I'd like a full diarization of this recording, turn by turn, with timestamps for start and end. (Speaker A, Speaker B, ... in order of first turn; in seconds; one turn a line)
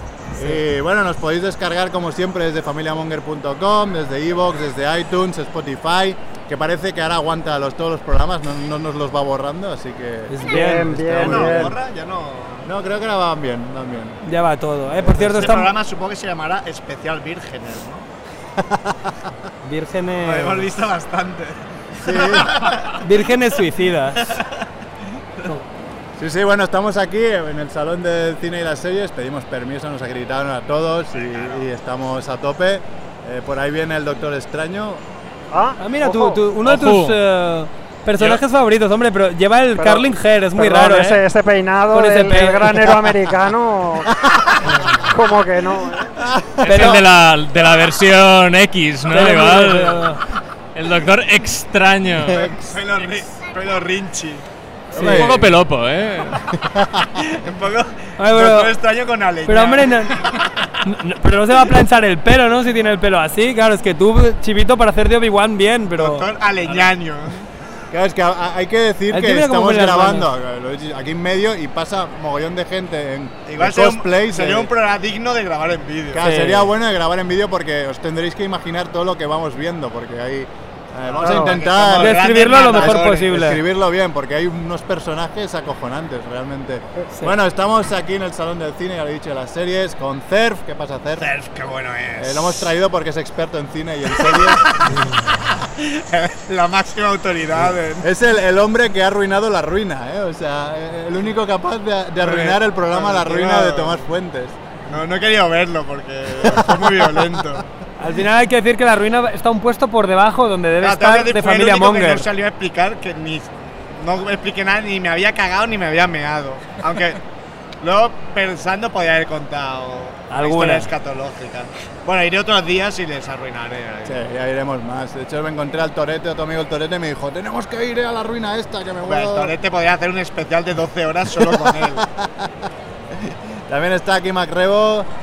Speaker A: 0.3-0.6
Speaker B: 0.3-11.8
Speaker A: 10.3-11.0
Speaker C: 10.4-11.7
Speaker D: 11.2-12.7
Speaker B: 12.6-14.2
Speaker A: 14.2-15.7
Speaker D: 15.2-18.1
Speaker B: 18.6-19.3
Speaker A: 19.6-20.7
Speaker D: 20.2-23.0
Speaker B: 22.0-22.6
Speaker A: 23.0-24.4
Speaker B: 26.2-35.0
Speaker D: 31.2-31.6
Speaker C: 35.5-36.4
Speaker A: 35.8-41.2
Speaker E: 36.6-37.1
Speaker C: 39.7-46.1
Speaker A: 41.9-43.0
Speaker B: 44.1-44.4
Speaker B: 46.2-47.0
Speaker E: 46.6-50.1
Speaker A: 46.6-47.0
Speaker A: 49.1-50.2
Speaker E: 50.7-52.5
Speaker D: 52.3-54.4
Speaker B: 54.9-55.6
Speaker A: 54.9-55.3
Speaker E: 55.0-56.4
Speaker B: 56.6-57.1
Speaker D: 57.2-60.5
Speaker A: 58.2-58.7
Speaker A: 59.5-60.2
Speaker A: 60.8-66.2
Speaker D: 65.9-67.5
Speaker B: 67.9-74.7
Speaker A: 69.1-70.3
Speaker D: 73.5-76.2
Speaker B: 76.1-91.3
Speaker A: 76.2-76.7
Speaker D: 81.1-83.3
Speaker A: 82.0-83.6
Speaker D: 91.2-92.7
Speaker B: 92.2-94.7
Speaker D: 94.2-98.0
Speaker B: 98.0-104.6
Speaker D: 102.2-104.0
Speaker D: 104.9-107.6
Speaker A: 108.0-112.3
Speaker D: 110.8-117.2
Speaker D: 117.8-124.2
Speaker A: 120.3-120.9
Speaker B: 124.0-129.5
Speaker D: 129.0-132.0
Speaker B: 131.4-135.1